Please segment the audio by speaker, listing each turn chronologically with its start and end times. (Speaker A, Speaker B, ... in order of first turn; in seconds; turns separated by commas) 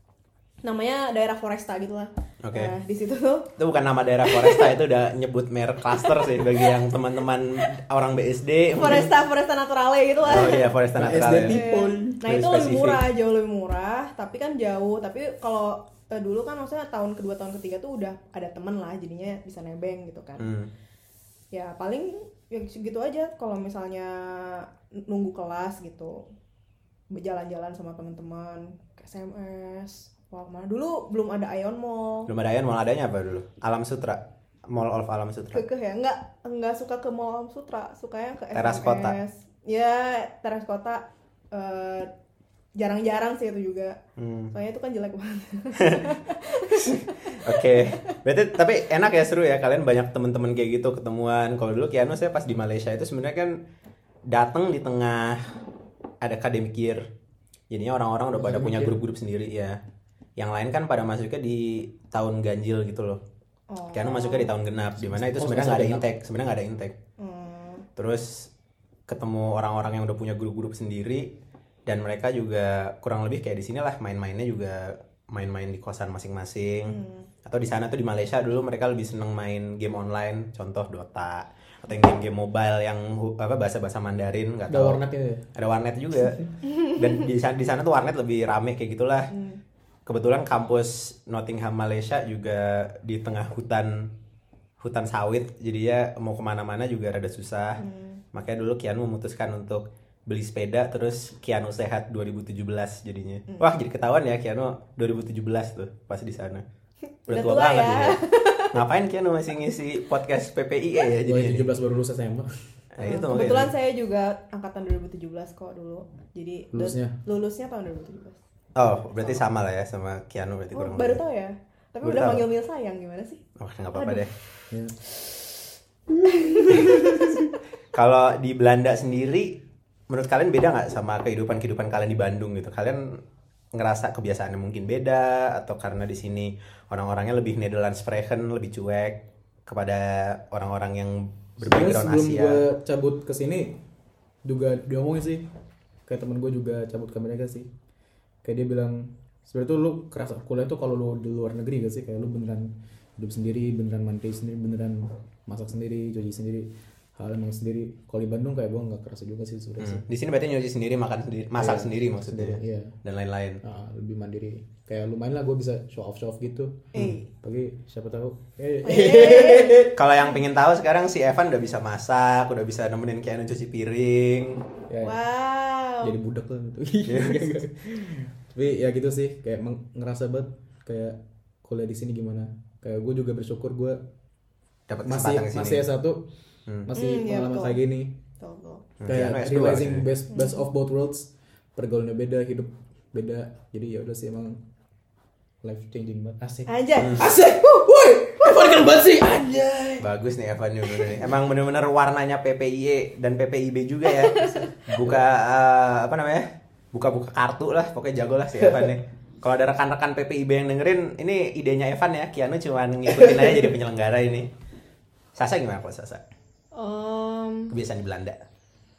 Speaker A: 0.6-3.5, Speaker B: 2.4-2.7, Speaker B: 3.6-9.1, Speaker A: 4.2-4.8, Speaker A: 5.9-6.8, Speaker A: 8.8-10.7, Speaker B: 10.2-11.6, Speaker C: 10.9-12.2, Speaker A: 11.4-20.5, Speaker B: 12.2-13.1, Speaker B: 20.4-20.7, Speaker A: 21.5-26.3, Speaker A: 27.1-32.3, Speaker B: 32.3-35.6, Speaker A: 35.5-42.1, Speaker B: 38.5-39.2, Speaker A: 42.8-44.0, Speaker B: 44.2-44.5, Speaker A: 44.5-48.0, Speaker B: 45.8-46.2, Speaker B: 46.8-53.6, Speaker B: 54.3-55.4, Speaker B: 56.2-57.0, Speaker B: 57.7-59.8, Speaker C: 58.3-59.0, Speaker B: 60.4-63.2, Speaker A: 63.7-64.5, Speaker B: 63.9-66.9, Speaker C: 65.0-66.2, Speaker A: 67.2-67.9, Speaker B: 68.0-68.5, Speaker B: 69.1-71.3, Speaker B: 71.9-85.0, Speaker A: 76.9-77.3, Speaker C: 84.7-85.5, Speaker B: 85.5-89.3, Speaker A: 89.3-89.6, Speaker B: 90.1-93.9, Speaker B: 94.8-97.8, Speaker A: 97.8-98.2, Speaker B: 98.3-106.6, Speaker A: 107.2-108.8, Speaker B: 107.3-108.2, Speaker B: 108.7-111.7, Speaker C: 111.2-112.5, Speaker B: 113.0-113.7, Speaker A: 113.0-118.4, Speaker C: 116.7-117.2, Speaker B: 118.8-121.2, Speaker A: 119.2-119.4, Speaker A: 120.7-123.4, Speaker B: 122.0-122.5, Speaker B: 123.6-124.3, Speaker A: 123.9-124.2, Speaker A: 126.2-127.6, Speaker B: 127.9-129.6, Speaker B: 130.1-133.0, Speaker B: 133.7-142.6, Speaker C: 141.6-143.8, Speaker C: 144.4-145.5, Speaker C: 146.1-147.7, Speaker C: 148.4-160.1, Speaker B: 159.8-163.6, Speaker C: 161.6-163.0, Speaker C: 163.6-170.0, Speaker B: 166.9-167.2, Speaker A: 167.0-167.2, Speaker A: 168.8-170.2, Speaker B: 169.9-174.6, Speaker C: 174.9-175.2, Speaker A: 175.0-176.2, Speaker C: 176.0-184.0, Speaker B: 177.1-177.5, Speaker B: 184.9-185.9, Speaker C: 185.0-186.3, Speaker C: 186.8-188.2, Speaker A: 186.9-187.8, Speaker A: 188.4-188.9, Speaker B: 189.0-190.1, Speaker C: 189.1-194.6, Speaker A: 190.3-190.7, Speaker C: 195.6-200.1, Speaker A: 196.7-197.8, Speaker B: 197.0-197.3, Speaker B: 200.0-214.5, Speaker C: 200.9-201.3, Speaker A: 204.1-204.7, Speaker C: 208.6-208.9, Speaker B: 215.4-216.2, Speaker A: 216.7-217.8, Speaker B: 217.7-218.4